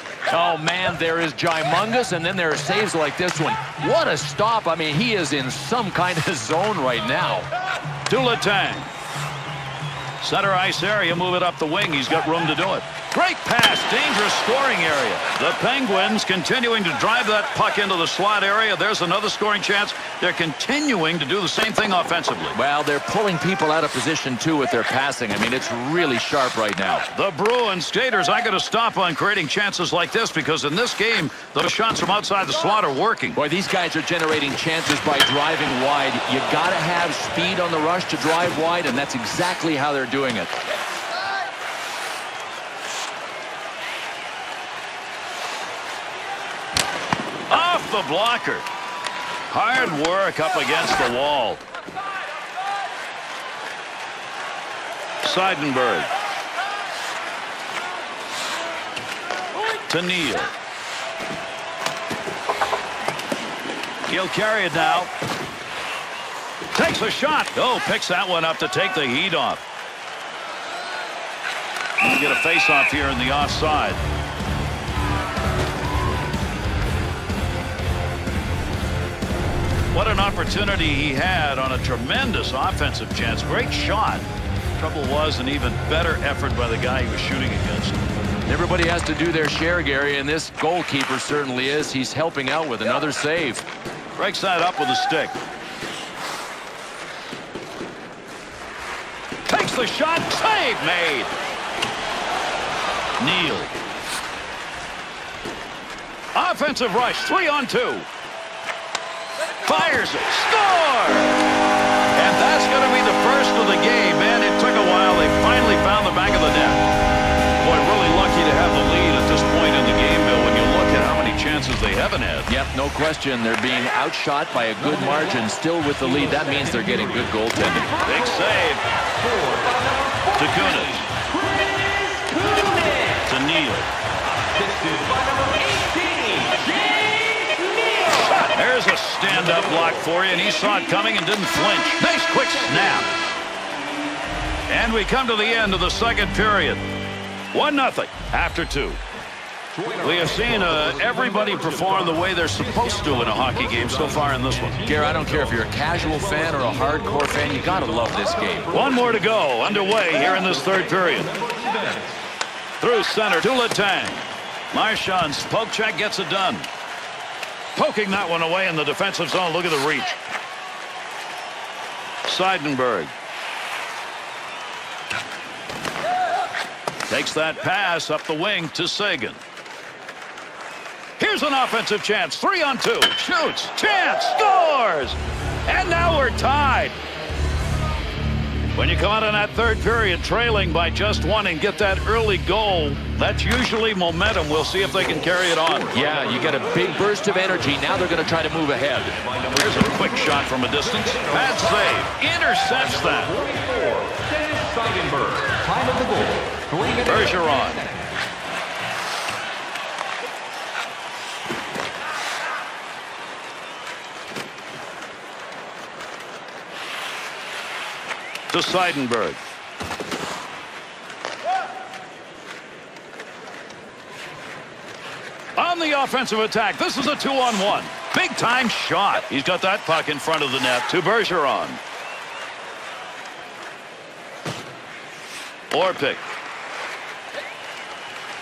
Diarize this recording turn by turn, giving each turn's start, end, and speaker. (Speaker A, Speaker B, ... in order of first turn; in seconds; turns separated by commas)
Speaker A: 0.3-7.5, Speaker B: 8.1-8.9, Speaker B: 10.2-22.6, Speaker A: 22.5-27.1, Speaker B: 27.1-33.4, Speaker A: 33.3-40.5, Speaker B: 47.5-48.7, Speaker B: 49.5-51.6, Speaker B: 55.2-56.1, Speaker B: 59.9-60.5, Speaker B: 64.1-65.1, Speaker B: 66.7-69.6, Speaker B: 72.0-74.0, Speaker B: 79.9-88.0, Speaker A: 88.5-93.7, Speaker B: 94.2-95.3, Speaker B: 99.5-101.3, Speaker B: 103.2-103.7, Speaker B: 106.3-108.1, Speaker B: 109.6-111.4, Speaker B: 112.1-116.8, Speaker B: 117.6-122.5, Speaker A: 122.5-128.0, Speaker B: 128.0-128.8, Speaker A: 129.5-133.2, Speaker B: 130.3-131.1, Speaker B: 133.2-133.9, Speaker A: 134.4-138.4, Speaker B: 138.3-143.1, Speaker B: 144.7-146.8, Speaker B: 147.5-149.0, Speaker B: 150.0-154.9, Speaker A: 154.8-158.8, Speaker B: 158.7-161.5, Speaker B: 162.8-166.7, Speaker B: 167.8-170.1, Speaker B: 172.3-173.1, Speaker B: 177.1-179.4, Speaker B: 181.2-187.0, Speaker B: 188.7-195.9, Speaker A: 195.9-199.3, Speaker B: 199.5-203.5, Speaker A: 203.4-207.8, Speaker B: 207.0-207.8, Speaker B: 218.5-219.4, Speaker B: 225.6-231.8, Speaker B: 235.7-236.2